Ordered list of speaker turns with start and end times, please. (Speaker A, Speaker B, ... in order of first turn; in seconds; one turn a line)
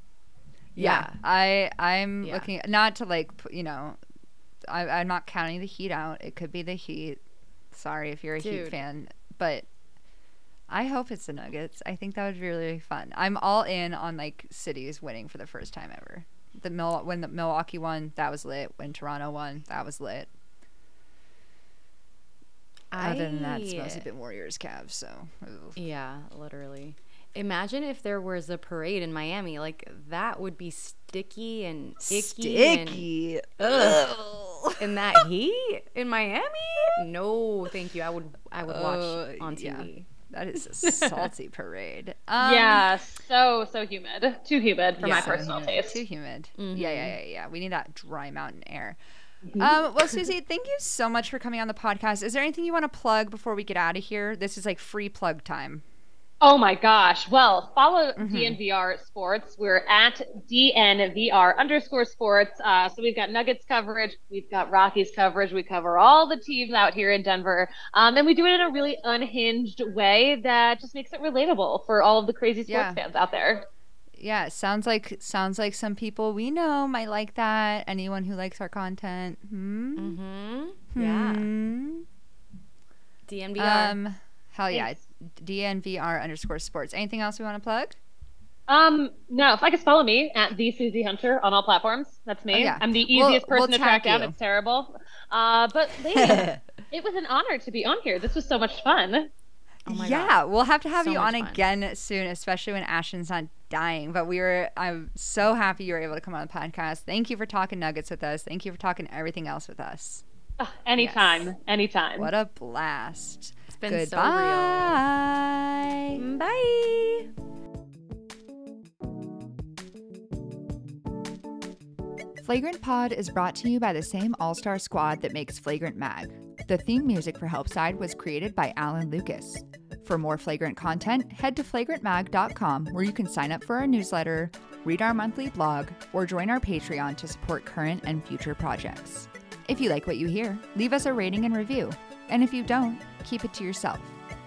Speaker A: 0.8-1.2
Speaker B: 0.8-4.0
Speaker A: 2.2-2.5
Speaker B: 4.6-7.2
Speaker B: 7.7-9.7
Speaker A: 8.4-8.8
Speaker B: 10.7-20.3
Speaker A: 22.9-24.0
Speaker B: 23.0-25.8
Speaker A: 25.8-33.1
Speaker B: 32.1-35.2
Speaker A: 33.6-34.0
Speaker A: 34.8-40.1
Speaker B: 38.6-42.9
Speaker A: 40.7-41.3
Speaker C: 42.4-46.0
Speaker A: 45.0-45.5
Speaker B: 45.0-49.0
Speaker A: 46.6-47.2
Speaker C: 49.4-49.8
Speaker B: 49.6-55.8
Speaker C: 56.4-73.7
Speaker B: 58.2-58.6
Speaker B: 72.7-73.0
Speaker B: 74.2-80.1
Speaker A: 80.0-81.5
Speaker B: 80.9-82.0
Speaker A: 83.3-84.0
Speaker B: 83.6-88.0
Speaker C: 88.7-99.3
Speaker B: 92.5-94.3
Speaker B: 96.1-96.6
Speaker A: 99.9-100.4
Speaker B: 99.9-110.2
Speaker A: 100.9-101.6
Speaker C: 110.6-112.3
Speaker B: 111.0-111.5
Speaker B: 112.2-116.2
Speaker A: 113.8-115.0
Speaker A: 116.2-117.3
Speaker B: 122.4-144.2